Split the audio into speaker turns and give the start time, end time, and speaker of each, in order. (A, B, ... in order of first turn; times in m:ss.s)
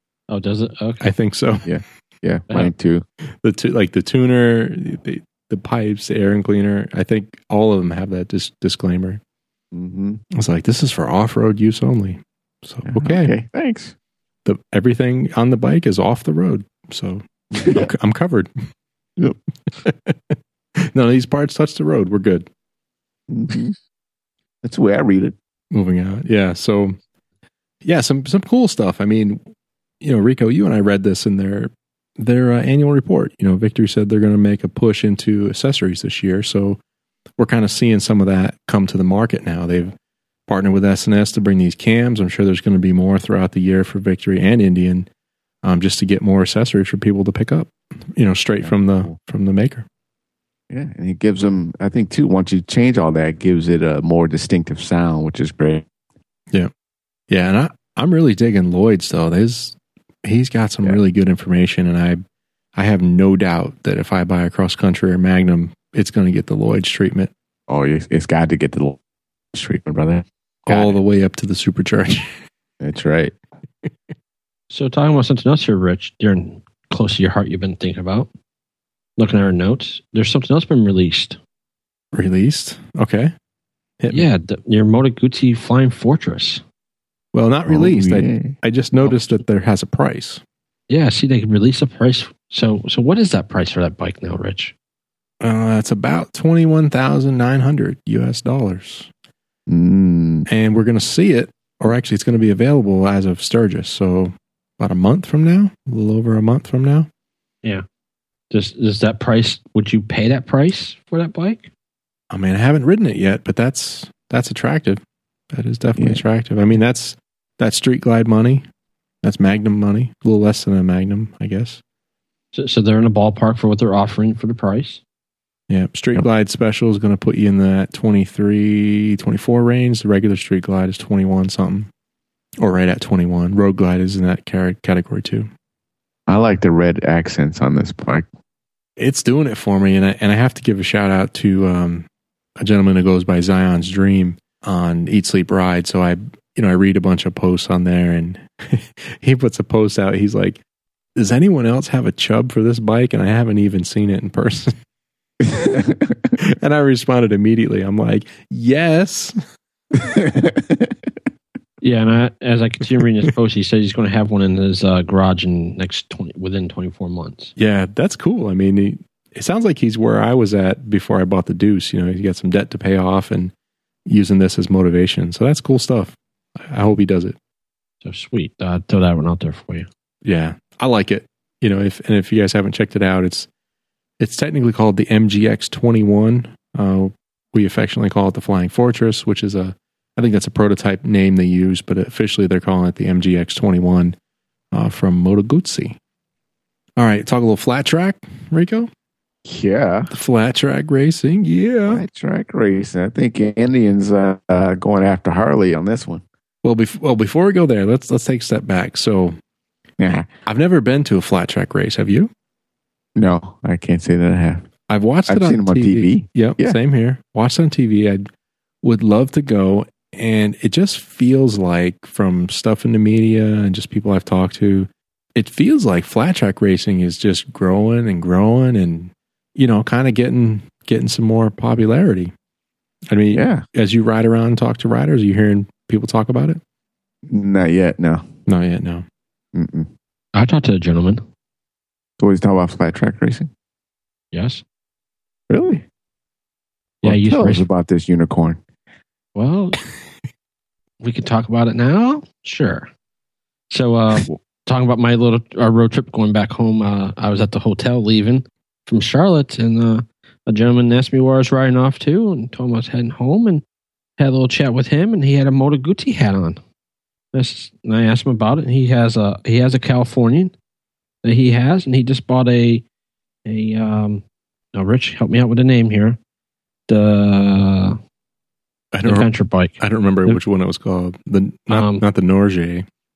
0:00.3-0:01.1 A
0:01.0-0:01.7 B
0:01.6-0:03.0 C
0:03.3-0:09.2 B
0:09.7-0:10.2 C
0:10.3-0:13.3 B
0:12.9-0:14.0 C
0:14.4-0:18.7 B
0:17.5-0:17.9 C
0:19.8-0:20.4 B
0:20.9-0:22.5 B
0:23.3-0:23.8 C
0:24.6-0:25.4 C
0:25.7-0:27.0 B
0:27.8-0:29.5 B
0:30.0-0:36.8 B
0:37.4-0:40.0 B
0:40.5-0:45.1 B
0:45.6-0:49.9 B
0:48.6-0:49.1 C
0:50.7-0:55.9 C
0:57.3-1:02.2 B
1:02.8-1:07.3 B
1:07.7-1:09.0 C
1:09.5-1:11.0 C
1:10.7-1:12.4 B
1:12.8-1:13.3 C
1:14.7-1:18.3 A
1:19.2-1:21.4 A
1:22.1-1:23.3 B
1:24.0-1:24.3 B
1:24.1-1:26.6 A
1:27.3-1:30.4 B
1:27.7-1:28.6 C
1:30.9-1:34.7 A
1:35.4-1:39.1 B
1:39.7-1:40.5 C
1:40.5-1:47.1 B
1:48.5-1:51.7 A
1:52.3-1:55.0 B
1:55.5-1:58.6 B
1:56.0-1:56.2 C
1:59.2-2:01.8 B
2:02.5-2:05.0 A
2:05.7-2:11.9 B
2:12.6-2:15.5 B
2:16.3-2:18.3 C
2:19.0-2:22.1 B
2:22.6-2:30.6 B
2:31.2-2:34.8 B
2:35.4-2:36.3 C
2:36.4-2:39.4 B
2:39.9-2:40.9 C
2:41.8-2:47.5 A
2:47.6-2:53.5 B
2:54.1-2:57.4 B
2:58.0-2:59.9 A
3:00.2-3:03.5 B
3:04.2-3:14.2 B
3:14.7-3:16.0 B
3:17.0-3:18.9 B
3:19.4-3:20.1 C
3:20.1-3:22.0 B
3:21.9-3:26.2 C
3:26.6-3:29.4 B
3:30.0-3:30.3 C
3:30.5-3:32.3 B
3:33.2-3:34.7 C
3:34.9-3:38.3 B
3:35.3-3:36.8 C
3:38.8-3:52.3 B
3:53.1-3:56.6 B
3:53.3-3:53.6 C
3:57.3-3:58.3 C
3:58.5-3:59.0 B
3:59.5-3:59.9 C
4:00.4-4:01.2 A
4:02.2-4:03.5 C
4:04.3-4:04.6 A
4:05.5-4:05.8 C
4:07.0-4:07.6 A
4:07.0-4:08.6 C
4:09.4-4:09.8 A
4:11.0-4:12.9 A
4:13.7-4:23.6 A
4:24.2-4:26.6 A
4:27.3-4:30.5 A
4:31.2-4:32.8 A
4:33.4-4:34.2 A
4:34.7-4:36.2 A
4:36.9-4:38.0 A
4:38.9-4:42.9 B
4:39.0-4:40.4 A
4:41.7-4:42.0 A